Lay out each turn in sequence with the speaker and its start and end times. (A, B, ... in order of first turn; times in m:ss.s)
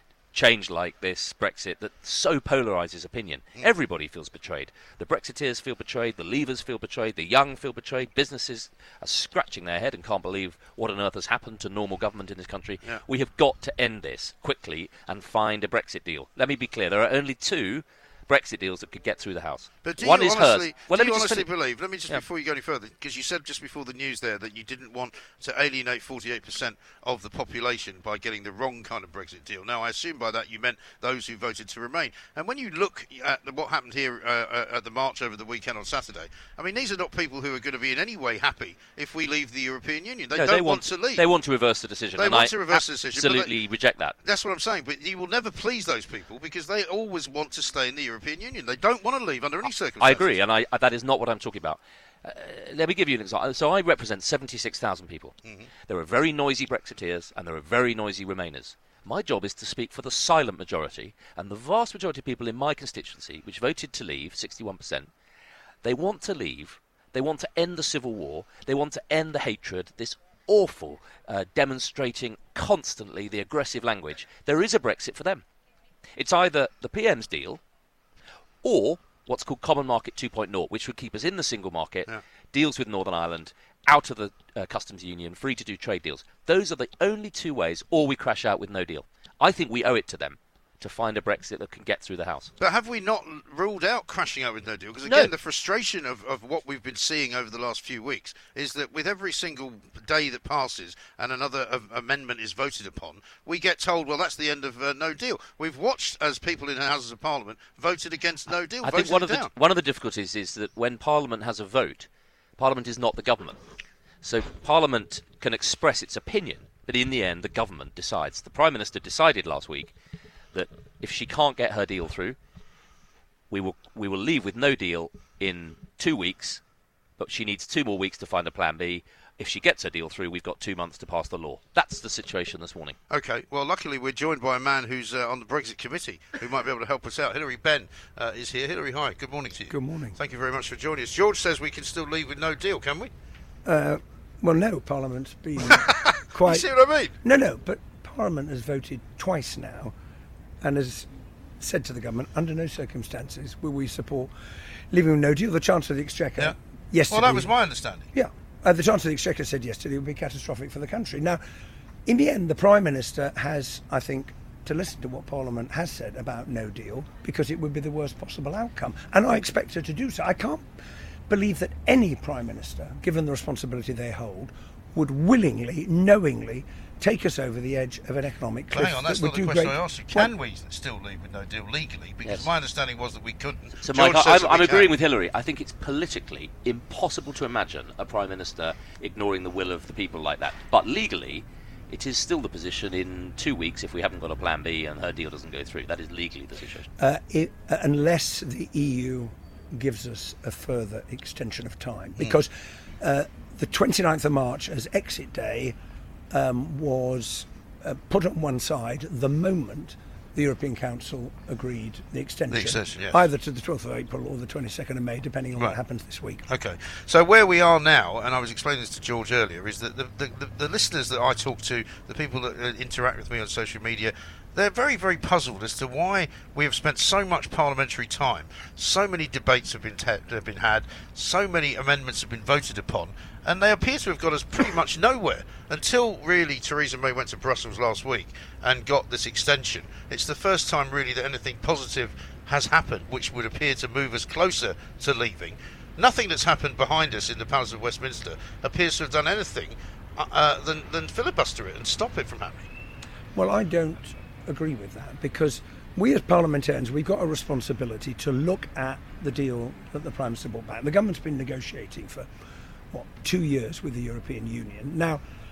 0:00.3-0:21.5 A
0:19.8-0:41.3 B
0:40.3-0:44.2 A
0:42.2-0:43.6 B
0:44.2-0:50.4 B
0:50.0-0:55.4 A
0:55.9-1:05.1 A
1:05.8-1:15.4 A
1:16.2-1:17.6 A
1:18.6-1:32.5 A
1:32.6-1:49.5 B
1:35.0-1:35.3 A
1:48.8-1:53.6 A
1:54.2-1:59.9 A
2:00.5-2:02.4 A
2:03.5-2:06.6 A
2:07.2-2:13.0 A
2:13.1-2:23.1 B
2:19.7-2:20.2 C
2:23.6-2:26.7 C
2:25.7-2:27.1 B
2:27.2-2:29.9 C
2:30.6-2:31.1 C
2:31.6-2:34.3 C
2:34.9-2:37.5 C
2:37.1-2:38.1 B
2:38.1-2:41.4 C
2:42.1-2:50.7 C
2:51.3-3:00.3 C
2:58.7-3:04.9 B
3:02.2-3:02.5 A
3:03.8-3:16.9 A
3:17.0-3:25.8 C
3:26.3-3:36.4 C
3:32.5-3:33.2 B
3:36.5-4:12.7 B
4:13.4-4:22.3 C
4:22.9-4:25.2 C